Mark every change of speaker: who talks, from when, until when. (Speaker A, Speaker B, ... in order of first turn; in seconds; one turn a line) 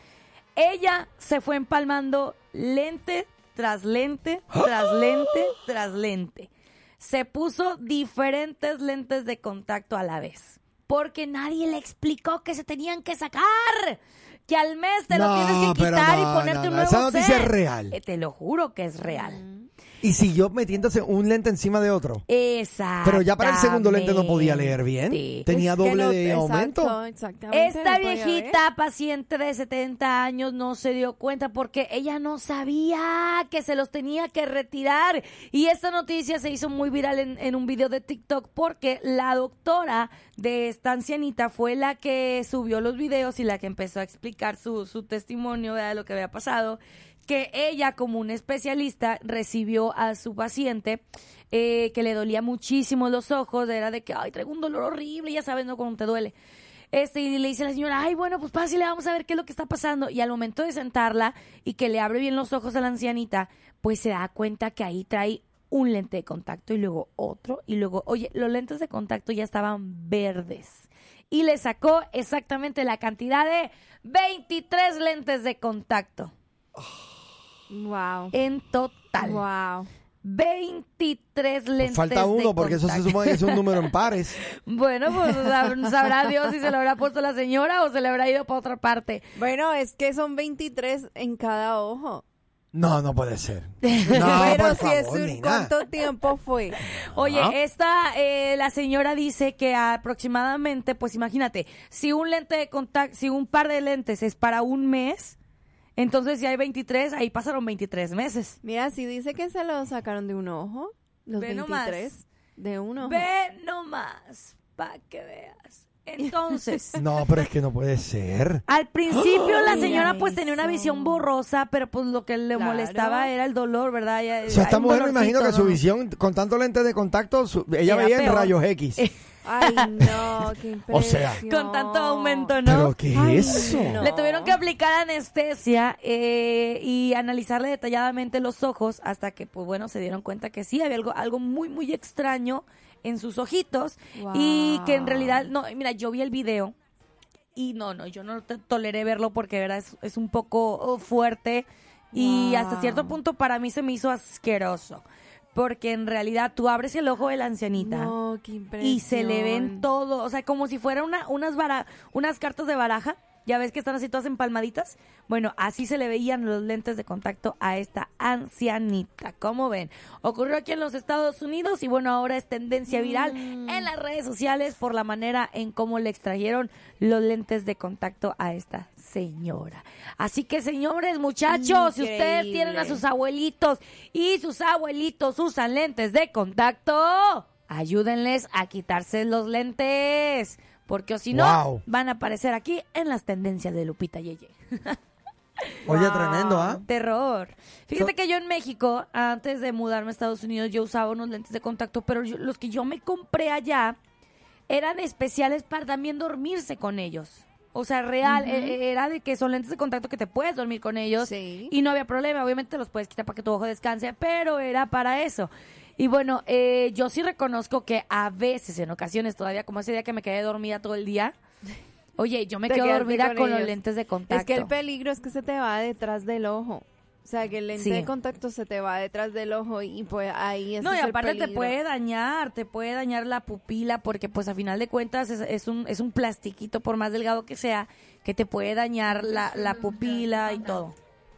Speaker A: 0.6-19.4
Speaker B: 15.1-17.9
Speaker C: 19.1-19.7
Speaker B: 20.0-22.2
Speaker A: 22.3-25.5
Speaker B: 23.0-26.9
Speaker C: 25.5-28.6
Speaker A: 27.5-56.3
Speaker A: 56.9-76.3
Speaker C: 77.7-78.3
Speaker A: 78.3-79.4
Speaker C: 79.2-79.9
Speaker A: 80.2-83.8
Speaker B: 81.8-84.4
Speaker A: 84.6-89.2
Speaker C: 89.3-92.2
Speaker B: 92.7-95.7
Speaker A: 93.8-94.6
Speaker C: 94.1-96.8
Speaker A: 96.9-105.3
Speaker B: 97.1-97.5
Speaker A: 106.0-108.6
Speaker C: 108.6-113.2
Speaker A: 111.3-112.1
Speaker A: 113.0-117.0
Speaker B: 117.0-118.6
Speaker A: 118.7-125.8
Speaker C: 119.3-121.2
Speaker C: 122.5-123.3
Speaker B: 124.5-129.0
Speaker A: 127.8-129.8
Speaker C: 129.4-132.6
Speaker B: 130.9-131.4
Speaker A: 131.4-146.7
Speaker B: 132.6-134.1
Speaker C: 133.1-134.6
Speaker C: 144.2-145.5
Speaker A: 147.5-158.1
Speaker C: 152.1-153.2
Speaker C: 157.8-159.9
Speaker A: 158.8-195.0
Speaker C: 172.9-173.9
Speaker C: 181.5-183.0
Speaker B: 191.3-191.8
Speaker A: 195.8-204.0
Speaker B: 195.8-196.8
Speaker C: 195.9-196.4
Speaker A: 204.7-221.3
Speaker C: 208.2-208.8
Speaker C: 211.2-211.7
Speaker A: 222.2-224.7
Speaker C: 222.7-223.8
Speaker C: 224.3-231.7
Speaker A: 227.7-228.1
Speaker A: 230.8-240.9
Speaker C: 239.1-240.8